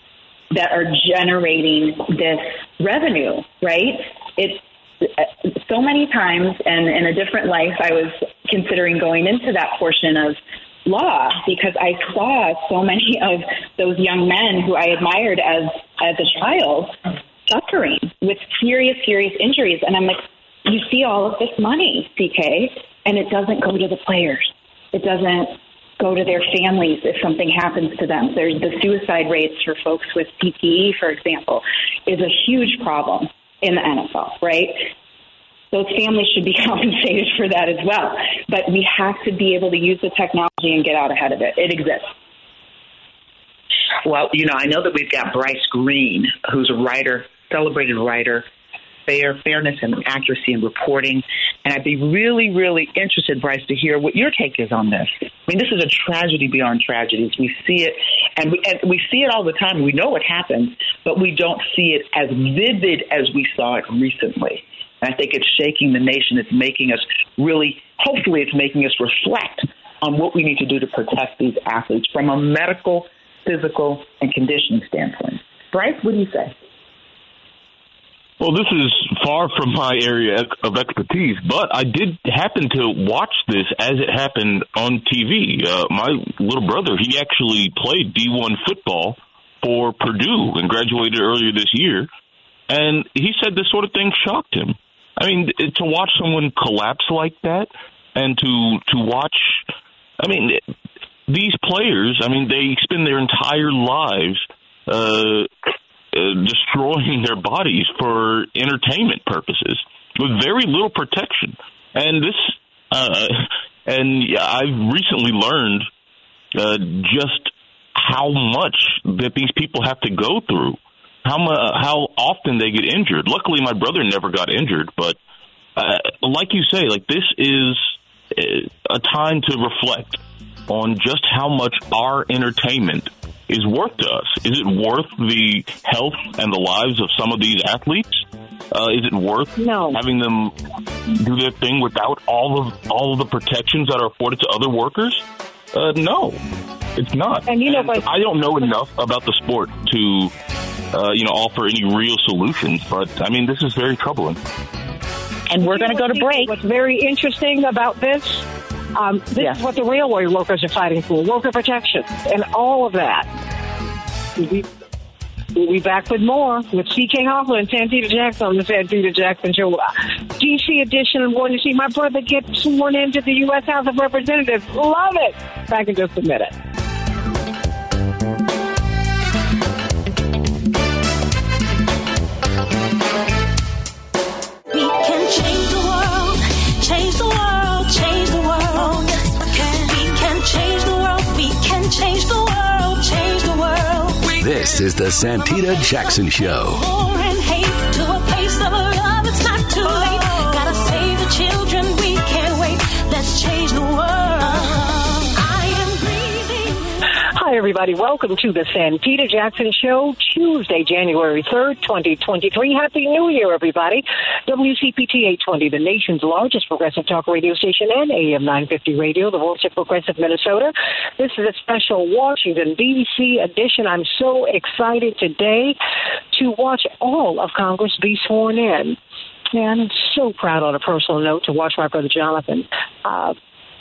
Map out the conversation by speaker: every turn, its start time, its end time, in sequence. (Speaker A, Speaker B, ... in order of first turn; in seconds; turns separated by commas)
Speaker A: 0.5-34.9, Speaker A: 35.7-42.1, Speaker B: 44.0-48.5, Speaker B: 49.1-76.5, Speaker C: 78.4-92.1, Speaker C: 92.7-99.6, Speaker C: 100.2-100.6, Speaker C: 101.3-105.5, Speaker C: 106.1-115.9, Speaker C: 116.5-125.2, Speaker C: 125.8-140.6, Speaker D: 139.6-140.0, Speaker C: 141.1-146.4, Speaker C: 146.9-150.3, Speaker D: 147.5-148.1, Speaker C: 150.9-154.4, Speaker B: 155.5-156.6, Speaker D: 155.6-163.3, Speaker D: 164.4-164.7, Speaker D: 165.5-176.5, Speaker E: 184.7-194.4, Speaker F: 194.4-196.8, Speaker E: 196.7-207.0, Speaker D: 207.3-225.8, Speaker D: 226.3-229.0, Speaker D: 229.5-233.4